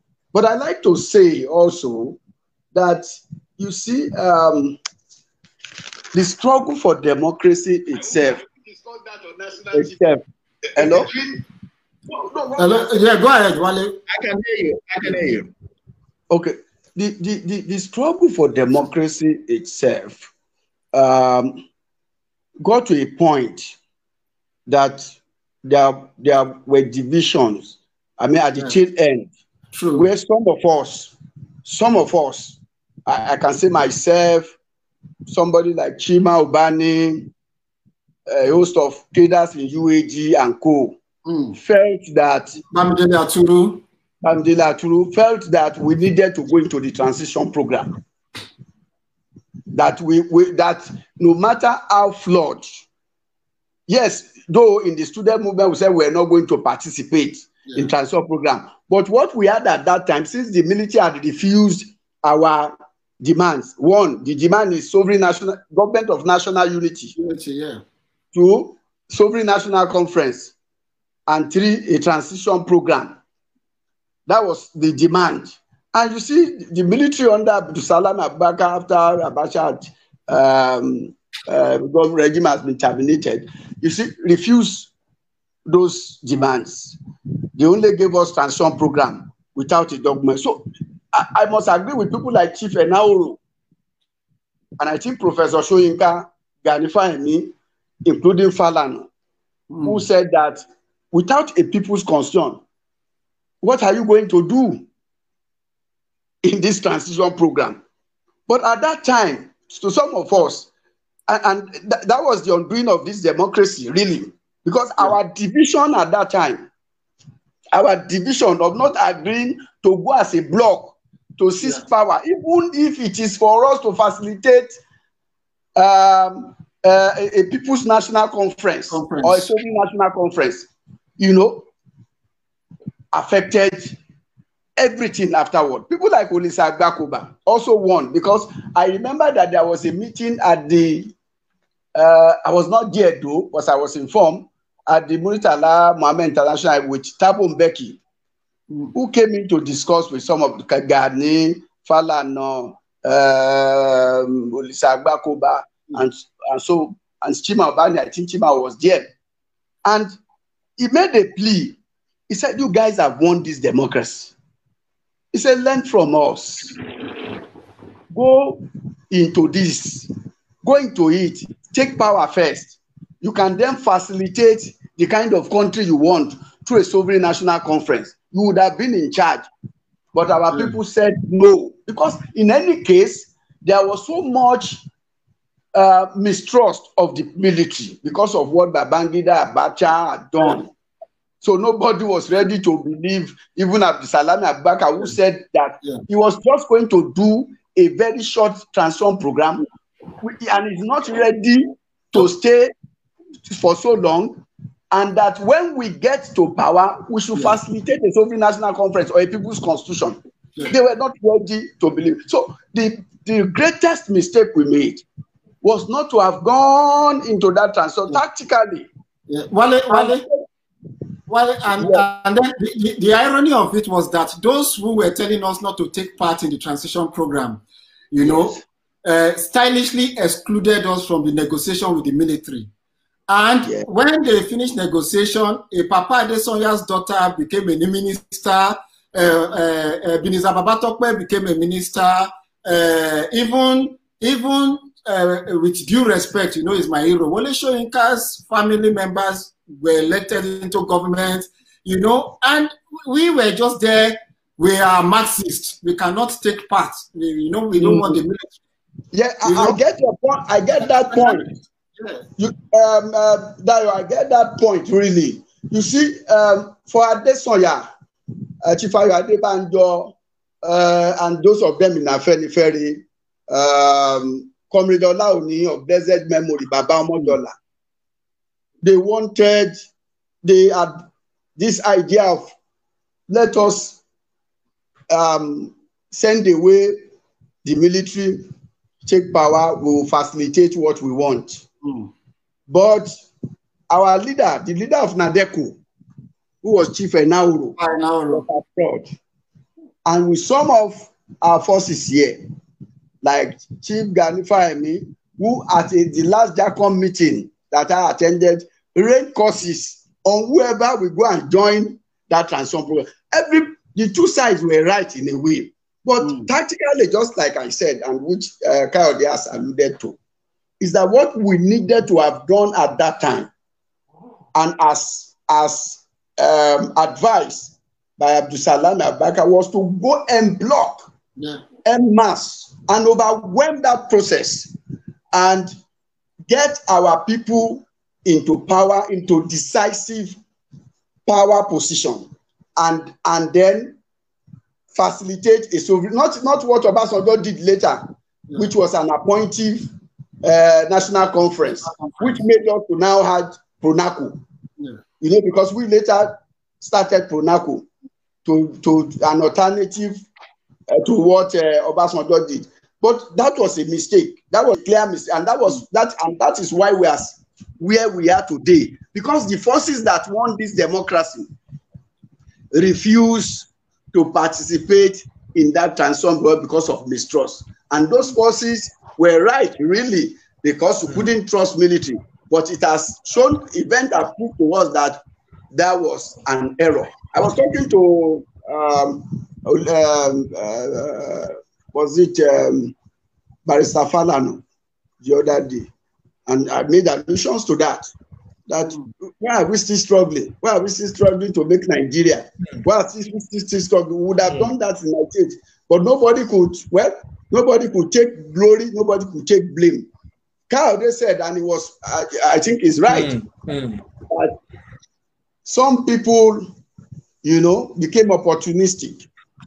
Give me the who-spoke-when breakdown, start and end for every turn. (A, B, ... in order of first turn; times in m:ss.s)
0:00.3-0:02.2 A
0:02.7-0:03.0 A
0:03.6-0:04.8 A
0:06.1-0:08.5 A
0:09.4-0:10.2 A
0:10.8-0:11.4 A
0:12.1-0:13.0 A
0:12.6-0:14.0 B
0:14.1-0:15.5 C
0:16.3-0:20.3 A
0:20.9-0:21.6 A
0:22.6-0:23.8 A
0:24.7-0:29.3 A
0:29.7-0:30.1 B
0:30.0-0:31.1 A
0:31.6-0:34.5 A
0:35.3-0:37.3 A
0:38.3-0:41.0 A
0:41.2-0:41.6 B
0:41.5-0:42.6 A
0:42.7-0:43.8 B
0:44.2-0:48.0 A
0:49.7-0:52.8 A
0:53.9-1:07.1 A
1:07.2-1:07.8 B
1:08.3-1:10.5 A
1:11.3-1:13.2 A
1:14.3-1:24.9 A
1:25.7-1:27.0 A
1:27.6-1:33.4 A
1:34.8-1:37.5 A
1:38.0-1:39.1 A
1:39.7-1:40.0 B
1:39.8-1:42.6 A
1:43.6-1:44.8 A
1:46.4-1:47.8 A
1:48.5-1:50.7 A
1:51.3-1:56.7 A
1:57.7-2:04.7 A
2:05.8-2:10.7 A
2:08.9-2:09.5 B
2:11.2-2:11.7 A
2:13.1-2:14.0 A
2:14.8-2:21.1 A
2:22.0-2:28.0 A
2:28.9-2:39.1 A
2:39.8-2:40.1 A
2:40.8-2:41.8 A
2:42.3-2:44.3 A
2:45.3-2:46.8 A
2:48.1-2:50.1 A
2:50.6-2:59.5 A
3:00.1-3:04.8 A
3:05.7-3:10.7 A
3:11.4-3:19.7 A
3:20.2-3:22.7 A
3:23.4-3:35.0 A
3:35.6-3:38.9 A
3:39.3-3:40.2 B
3:39.9-3:40.4 A
3:41.3-3:52.7 B
3:41.8-3:42.0 A
3:48.2-3:48.6 A
3:53.3-4:18.6 B
4:17.7-4:18.2 A
4:19.1-4:21.5 A
4:19.4-4:19.8 B
4:21.1-4:22.2 B
4:22.4-4:27.9 A
4:28.6-4:37.5 A
4:38.8-4:39.8 A
4:40.4-4:41.0 A
4:41.6-4:42.5 A
4:43.3-4:44.0 A
4:45.1-4:47.0 A
4:47.6-4:48.5 A
4:49.0-4:51.6 A
4:51.8-4:52.1 B
4:52.7-4:53.1 A
4:53.9-4:55.8 A
4:56.6-4:57.8 A
4:57.8-4:58.4 B
4:58.3-4:59.1 A
5:00.0-5:02.4 A
5:03.2-5:20.2 A
5:16.2-5:16.5 B
5:20.8-5:23.5 A
5:24.6-5:31.1 A
5:31.8-5:34.7 A
5:35.3-5:35.7 A
5:36.5-5:40.4 A
5:41.3-5:44.0 A
5:44.9-5:49.9 A
5:50.4-5:54.4 A
5:51.8-5:52.4 B
5:55.2-5:57.9 A
5:58.4-6:00.2 A
6:00.9-6:11.5 A
6:12.7-6:25.2 A
6:25.7-6:32.9 A
6:33.7-6:34.6 A
6:35.2-6:35.9 A
6:36.5-6:38.1 A
6:38.7-6:50.1 A
6:50.7-6:53.4 A
6:53.1-6:54.0 C
6:54.3-6:54.6 A
6:55.6-6:56.7 A
6:57.4-6:59.3 A